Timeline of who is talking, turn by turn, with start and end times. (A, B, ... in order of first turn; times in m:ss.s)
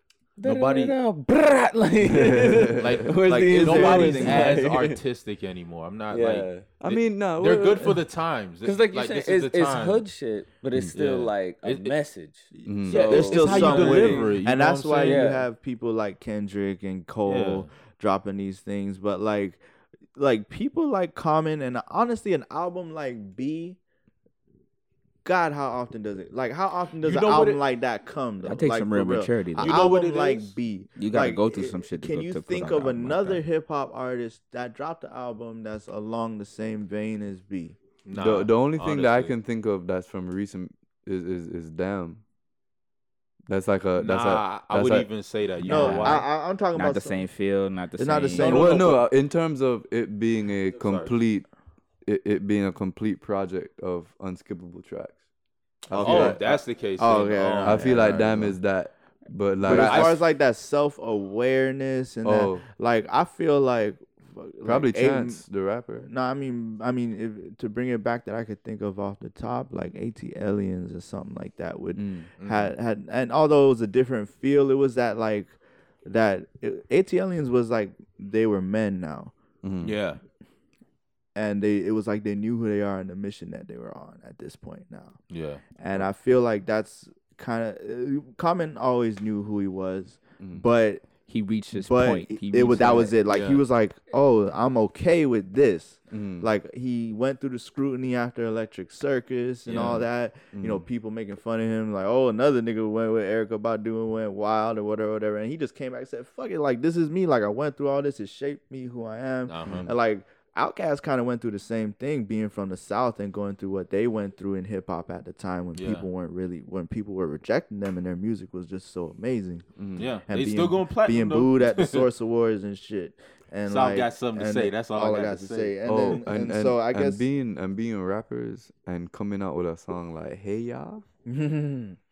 0:00.4-0:05.0 A
0:00.4-0:01.0 B
0:02.0-0:02.9 C
0:02.7-0:10.0 B
0:03.2-0:04.7 D
0:06.1-0:06.7 A
0:06.8-0:08.0 C
0:08.6-0:14.4 A
0:10.9-0:12.0 B
0:12.5-0:19.6 D
0:12.6-0:13.0 C
0:12.9-0:15.4 B
0:15.0-0:15.5 A
0:17.2-0:17.7 B
0:20.2-0:23.8 D
0:25.2-0:37.8 D
0:27.0-0:27.6 B
0:28.4-0:29.9 E
0:29.6-0:30.6 B
0:31.0-0:33.4 E
0:38.0-0:39.3 B
0:38.1-0:42.2 C
0:43.5-0:45.1 C
0:44.0-0:46.3 B
0:45.6-0:47.2 D
0:45.6-0:48.5 E
0:48.0-0:49.0 D
0:48.4-0:49.0 B
0:48.4-0:51.5 C
0:50.7-0:51.1 B
0:52.0-0:55.2 C
0:55.9-0:56.6 C
0:55.9-0:58.3 B
0:55.9-0:58.6 D
0:57.6-1:00.2 C
0:59.6-1:05.4 D
0:59.6-1:00.2 B
1:02.2-1:02.6 C
1:04.6-1:06.1 C
1:06.0-1:19.3 D
1:11.9-1:12.3 C
1:12.4-1:12.7 B
1:19.6-1:20.0 C
1:19.8-1:20.2 B
1:21.3-1:25.2 D
1:25.3-1:25.6 B
1:25.8-1:31.0 D
1:30.4-1:30.6 C
1:31.3-1:33.2 E
1:31.7-1:59.6 D
1:33.2-1:33.6 B
1:36.1-1:36.5 C
1:39.6-1:40.0 B
1:39.7-1:40.8 C
1:49.5-1:49.9 B
1:49.6-1:49.9 C
1:55.7-1:56.1 B
1:59.8-2:00.1 C
2:00.0-2:02.1 B
2:00.3-2:07.2 D
2:03.6-2:06.2 B
2:05.8-2:11.0 C
2:11.2-2:12.0 D